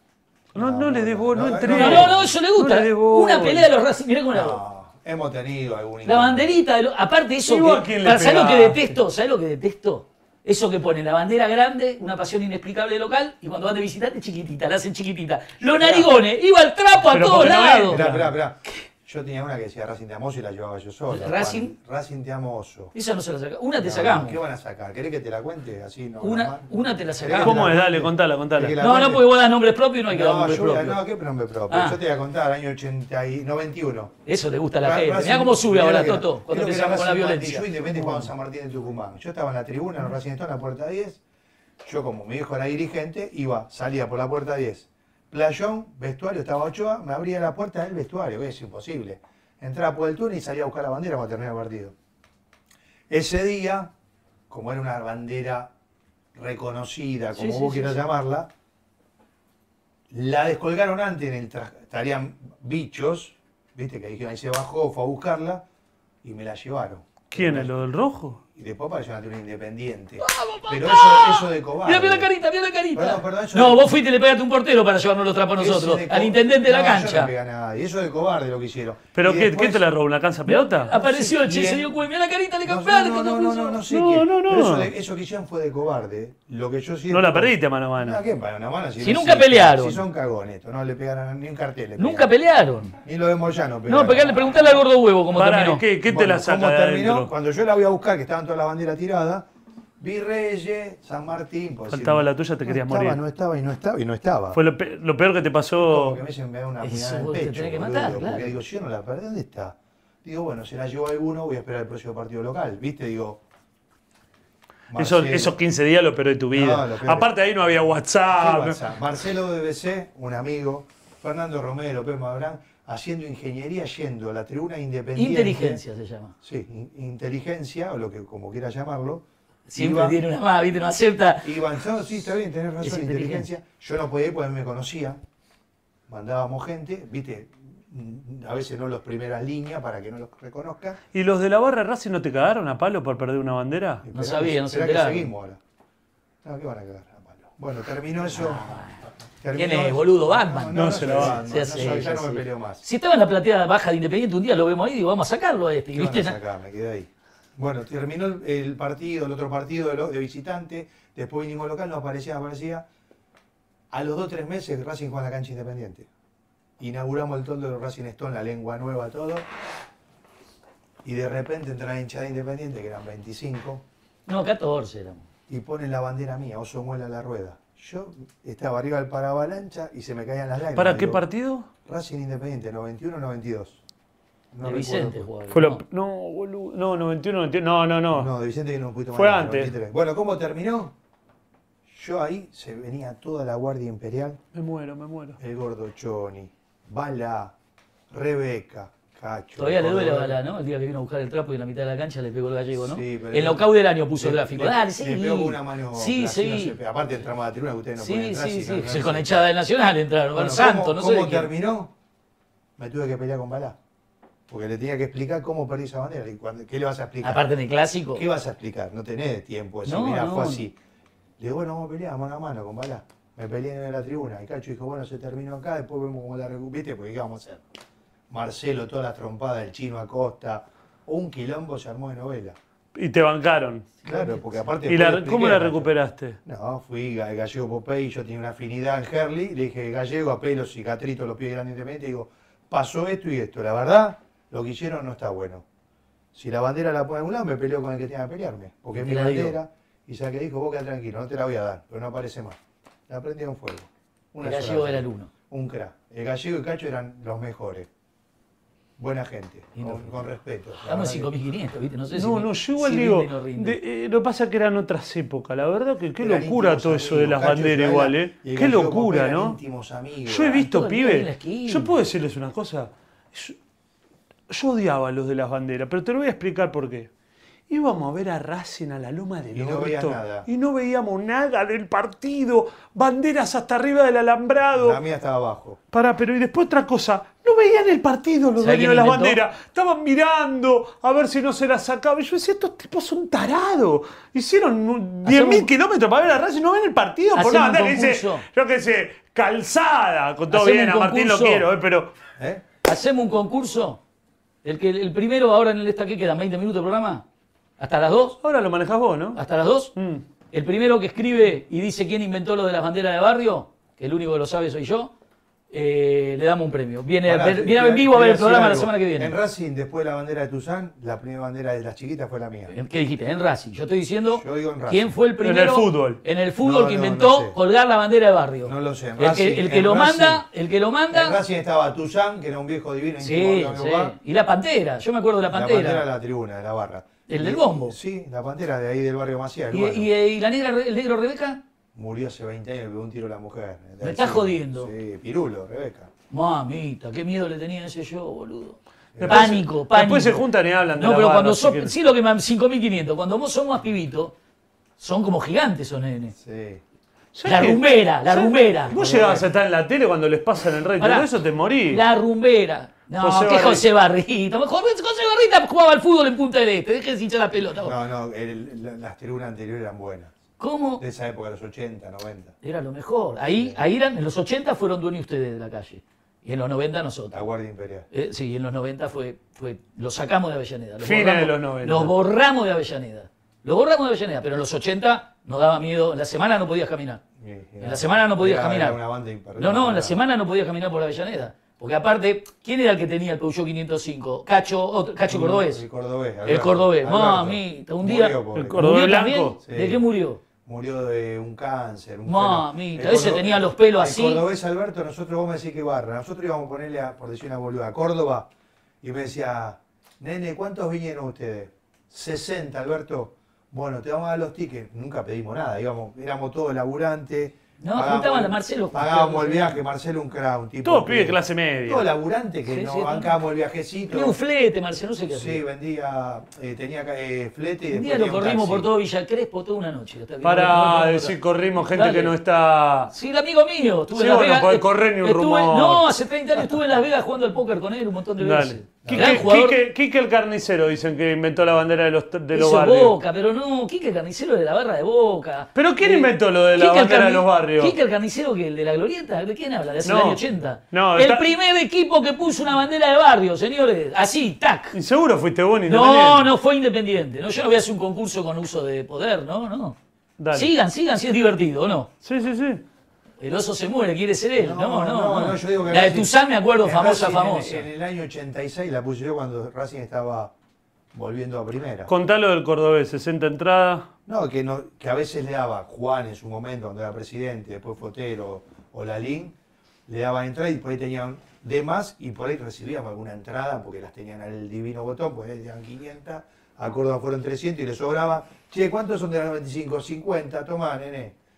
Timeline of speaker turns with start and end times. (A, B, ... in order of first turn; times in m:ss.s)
0:00.5-0:03.7 A
0:00.5-0:02.2 B
0:01.7-0:04.6 C
0:04.3-0:06.6 B
0:06.0-0:18.0 C
0:07.4-0:08.9 A
0:15.6-0:16.1 B
0:17.0-0:18.3 A
0:17.4-0:22.9 B
0:21.1-0:21.7 C
0:22.9-0:24.4 C
0:23.8-0:29.3 B
0:26.2-0:27.7 C
0:27.4-0:28.8 A
0:28.8-0:31.0 C
0:30.1-0:34.2 B
0:31.7-0:32.0 C
0:34.2-0:38.3 C
0:34.8-0:41.2 B
0:41.8-0:51.9 B
0:53.1-0:53.9 B
0:54.5-0:55.7 B
0:56.3-0:58.5 B
0:57.4-0:58.0 C
1:00.1-1:05.6 B
1:06.2-1:12.3 B
1:07.3-1:08.4 A
1:10.2-1:17.3 C
1:12.9-1:13.9 B
1:15.6-1:19.8 B
1:19.1-1:20.9 A
1:20.5-1:23.8 C
1:20.9-1:21.9 B
1:22.6-1:32.3 B
1:23.9-1:24.9 A
1:27.1-1:28.2 A
1:29.0-1:30.0 C
1:32.0-1:33.0 C
1:33.0-1:34.6 B
1:33.9-1:35.8 C
1:35.3-1:37.3 A
1:36.0-1:39.4 B
1:40.0-1:44.6 B
1:41.9-1:43.2 A
1:44.5-1:46.2 A
1:45.8-1:53.4 B
1:46.8-1:48.6 C
1:54.9-1:55.6 B
1:54.9-1:58.8 A
1:56.5-1:57.3 B
1:58.3-2:05.8 B
2:05.2-2:06.3 C
2:06.4-2:09.2 B
2:09.7-2:11.6 C
2:09.8-2:10.2 B
2:11.4-2:15.2 B
2:12.8-2:13.5 C
2:16.1-2:21.0 B
2:21.1-2:24.0 A
2:24.0-2:25.6 B
2:24.1-2:25.3 C
2:26.4-2:28.7 B
2:28.4-2:29.0 C
2:29.4-2:32.8 B
2:29.5-2:36.4 C
2:30.7-2:31.4 A
2:35.9-2:42.8 B
2:43.9-2:46.1 B
2:46.8-2:49.4 B
2:51.0-2:53.8 B
2:54.3-2:55.3 C
2:55.5-3:01.2 B
3:00.7-3:01.7 A
3:01.8-3:03.8 B
3:04.5-3:05.3 B
3:04.6-3:05.8 C
3:05.5-3:08.3 A
3:08.1-3:10.9 B
3:09.1-3:09.7 A
3:11.9-3:14.4 B
3:14.5-3:15.4 A
3:15.4-3:17.5 B
3:18.1-3:20.4 B
3:19.6-3:26.7 C
3:22.7-3:29.4 B
3:28.0-3:31.5 C
3:30.3-3:31.9 B
3:32.8-3:33.8 B
3:34.5-3:37.5 B
3:37.2-3:38.2 C
3:38.1-3:40.7 B
3:39.8-3:40.6 C
3:41.4-3:47.6 B
3:48.3-3:52.6 B
3:52.9-3:53.9 A
3:54.0-3:54.4 C
3:54.0-3:55.9 B
3:54.8-3:56.4 A
3:56.4-4:05.6 B
4:06.3-4:12.6 B
4:08.9-4:09.6 C
4:13.1-4:17.9 B
4:14.4-4:15.3 C
4:19.0-4:21.3 B
4:19.7-4:20.2 C
4:20.8-4:23.8 C
4:22.1-4:29.6 A
4:26.2-4:30.7 B
4:30.2-4:33.6 A
4:30.6-4:32.0 C
4:34.5-4:37.1 A
4:37.7-4:45.0 A
4:39.5-4:40.5 B
4:44.8-4:45.8 B
4:45.9-5:02.1 A
4:48.6-4:49.4 C
4:55.2-4:55.7 C
4:57.3-4:58.4 C
5:00.5-5:01.6 C
5:02.4-5:02.6 B
5:02.8-5:04.0 C
5:04.6-5:07.2 C
5:07.8-5:08.4 C
5:08.4-5:09.4 A
5:09.3-5:09.9 C
5:09.9-5:10.2 A
5:10.5-5:15.1 C
5:15.7-5:19.3 C
5:17.2-5:22.7 B
5:22.7-5:31.4 C
5:24.3-5:25.1 B
5:25.4-5:26.2 A
5:26.6-5:27.6 B
5:28.6-5:30.4 B
5:31.1-5:34.1 B
5:33.2-5:36.0 C
5:35.5-5:40.1 B
5:37.3-5:38.0 C
5:39.7-5:41.6 C
5:41.9-5:46.1 B
5:44.0-5:44.9 C
5:46.3-5:54.3 C
5:49.1-5:49.6 B
5:49.2-5:52.0 A
5:55.0-5:56.3 C
5:56.4-5:56.8 B
5:57.3-6:02.0 A
5:57.4-5:58.9 C
5:58.8-5:59.5 B
6:01.0-6:01.3 C
6:01.9-6:07.9 C
6:03.2-6:03.8 A
6:07.8-6:10.3 B
6:10.6-6:11.0 C
6:11.0-6:12.6 B
6:12.6-6:17.4 C
6:13.5-6:13.8 B
6:17.3-6:18.1 B
6:18.1-6:27.2 C
6:21.0-6:22.1 A
6:27.4-6:30.2 B
6:27.8-6:29.0 C
6:29.6-6:35.8 C
6:35.3-6:38.9 B
6:36.4-6:40.4 C
6:38.5-6:39.6 A
6:39.6-6:40.0 B
6:40.6-6:48.5 B
6:42.2-6:44.4 C
6:49.0-7:04.4 B
6:57.8-6:59.8 C
7:00.8-7:02.1 A
7:02.7-7:03.3 C
7:04.1-7:05.6 C
7:05.3-7:08.9 B
7:07.9-7:11.4 C
7:10.4-7:13.1 A
7:11.9-7:12.3 C
7:13.1-7:19.8 C
7:14.1-7:16.0 A
7:18.4-7:23.2 A
7:19.0-7:19.4 B
7:22.5-7:35.0 C
7:25.7-7:27.9 A
7:30.0-7:31.5 A
7:34.9-7:36.5 A
7:35.8-7:40.0 C
7:40.4-7:40.7 A
7:40.5-7:42.1 C
7:42.2-7:42.8 A
7:43.4-7:47.8 C
7:44.6-7:50.5 B
7:51.1-7:52.1 B
7:52.1-7:54.1 A
7:54.3-7:59.5 B
8:00.1-8:11.4 B